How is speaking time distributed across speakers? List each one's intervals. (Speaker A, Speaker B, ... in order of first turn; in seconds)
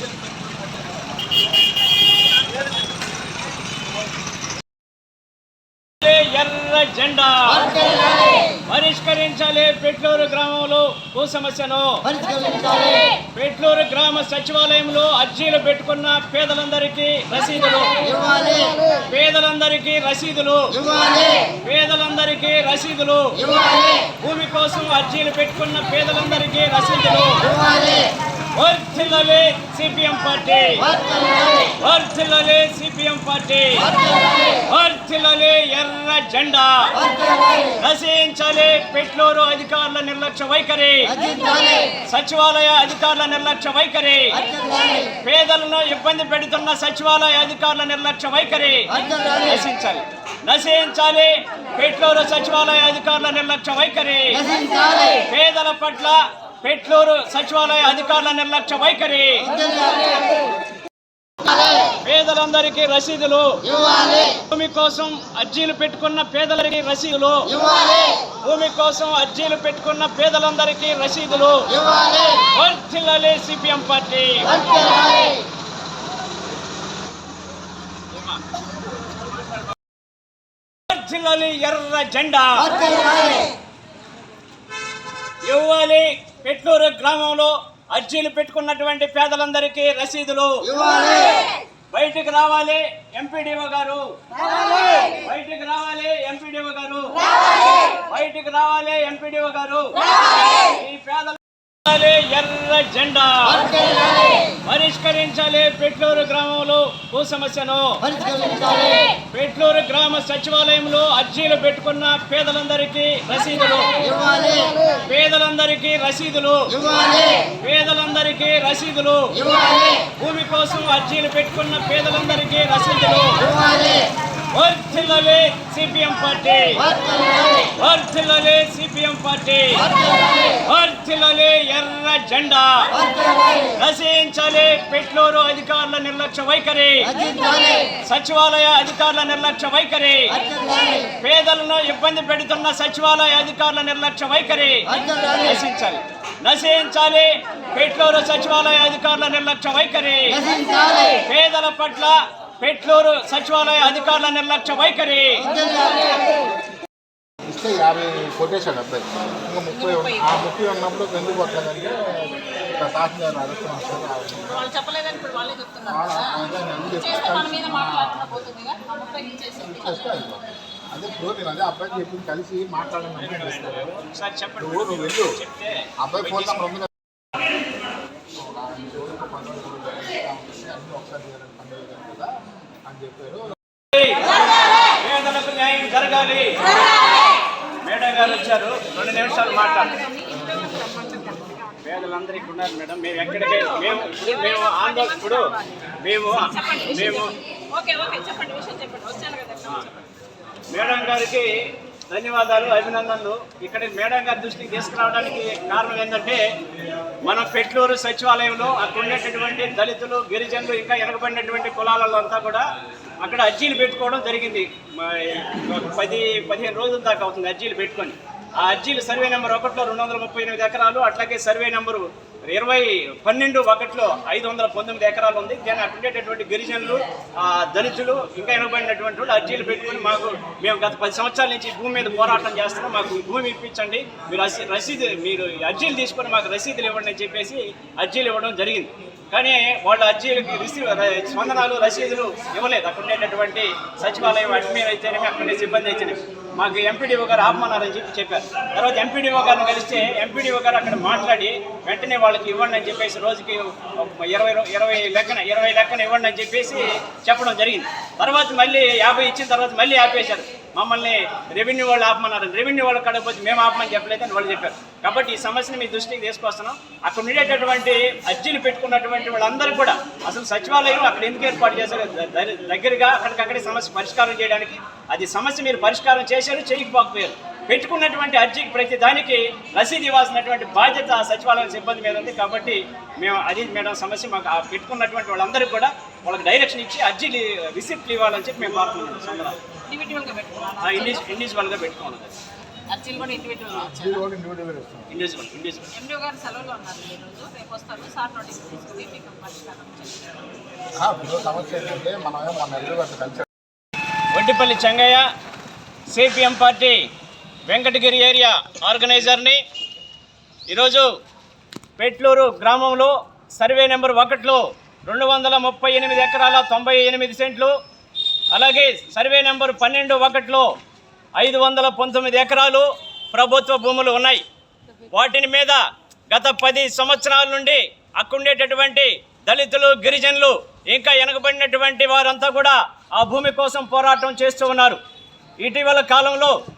Speaker A: 6.0-18.3, 18.9-27.7, 28.5-30.9, 31.6-59.9, 61.9-63.7, 64.2-67.7, 68.2-71.8, 72.3-75.0, 80.9-83.2, 85.4-91.3, 91.9-94.1, 95.1-103.9, 104.6-123.8, 124.5-126.9, 127.6-133.0, 133.7-150.5, 151.1-155.5, 173.2-176.7, 183.9-184.3, 184.9-186.7, 187.8-190.2, 191.8-197.3, 200.7-206.4, 207.2-212.7, 213.2-289.6, 290.8-292.3, 295.1-295.9, 304.3-305.3, 306.1-307.1, 307.7-309.6, 310.7-311.1, 312.0-317.7, 318.5-320.7, 321.4-324.4, 325.1-335.0, 335.6-336.6
Speaker B: 157.5-164.7, 165.8-168.5, 169.6-174.0, 174.6-175.3, 176.0-176.9, 178.4-182.3, 182.9-183.5, 293.8-295.1, 301.0-303.4
Speaker C: 159.7-160.3, 164.5-166.4, 166.9-170.1, 190.0-191.7, 194.1-195.6, 196.5-200.1, 289.9-291.2, 292.9-294.2, 295.9-300.3